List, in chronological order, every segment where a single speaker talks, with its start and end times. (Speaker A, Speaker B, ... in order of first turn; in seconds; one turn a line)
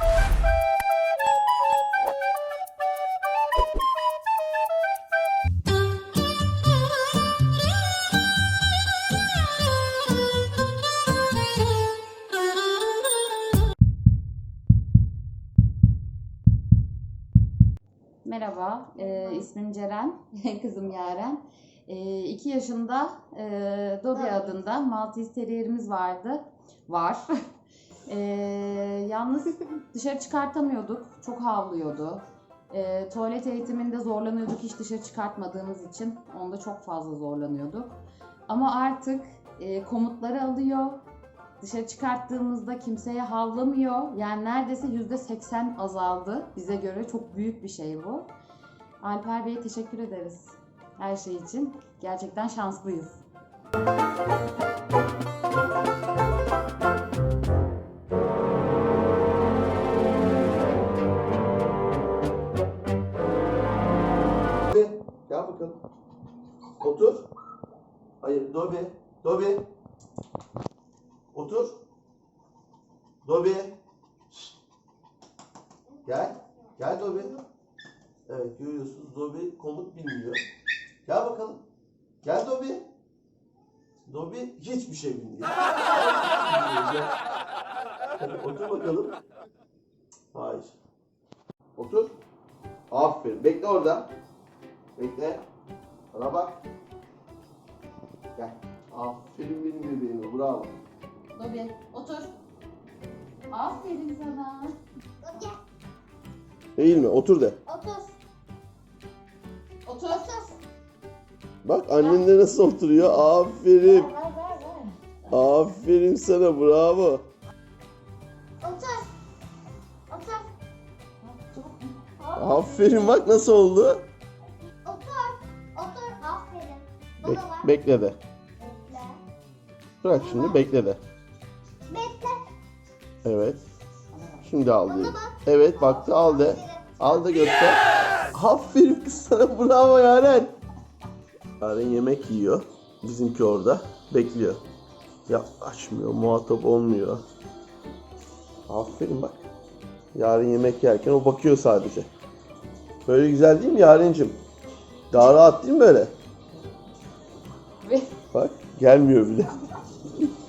Speaker A: 18.2-27.2
Speaker B: 19.0-19.5
Speaker B: 24.1-24.6
Speaker A: 28.1-41.0
Speaker A: 41.6-48.3
Speaker A: 49.0-53.2
Speaker C: 64.6-65.8
Speaker C: 66.8-67.3
Speaker C: 68.2-69.7
Speaker C: 71.3-71.8
Speaker C: 73.2-73.8
Speaker B: 75.9-77.5
Speaker C: 76.0-77.4
Speaker C: 78.3-80.4
Speaker C: 81.0-81.7
Speaker C: 82.2-82.9
Speaker C: 84.1-85.6
Speaker C: 86.2-87.1
Speaker C: 88.2-89.2
Speaker C: 90.3-90.8
Speaker C: 91.8-92.1
Speaker C: 92.9-94.1
Speaker C: 95.0-95.4
Speaker C: 96.1-96.6
Speaker C: 98.4-100.8
Speaker A: 101.3-102.3
Speaker A: 103.5-104.8
Speaker B: 105.2-105.6
Speaker C: 106.8-107.6
Speaker B: 107.7-108.2
Speaker A: 109.9-110.2
Speaker B: 110.0-110.6
Speaker C: 111.6-114.1
Speaker A: 112.0-112.3
Speaker A: 113.8-115.4
Speaker C: 115.3-117.2
Speaker B: 118.6-119.1
Speaker B: 120.1-120.5
Speaker A: 121.2-121.9
Speaker B: 122.2-123.2
Speaker C: 122.4-124.0
Speaker B: 124.8-127.7
Speaker C: 127.2-128.2
Speaker B: 128.6-129.2
Speaker C: 130.0-131.0
Speaker B: 130.2-130.6
Speaker B: 131.9-132.4
Speaker C: 133.2-133.6
Speaker A: 134.1-134.5
Speaker C: 134.4-137.8
Speaker B: 134.8-137.2
Speaker C: 138.3-140.6
Speaker C: 141.6-144.6
Speaker C: 145.3-147.2
Speaker C: 148.7-149.5
Speaker C: 150.2-152.1
Speaker C: 153.1-154.4
Speaker C: 155.1-156.1
Speaker A: 157.8-158.1
Speaker C: 158.3-159.6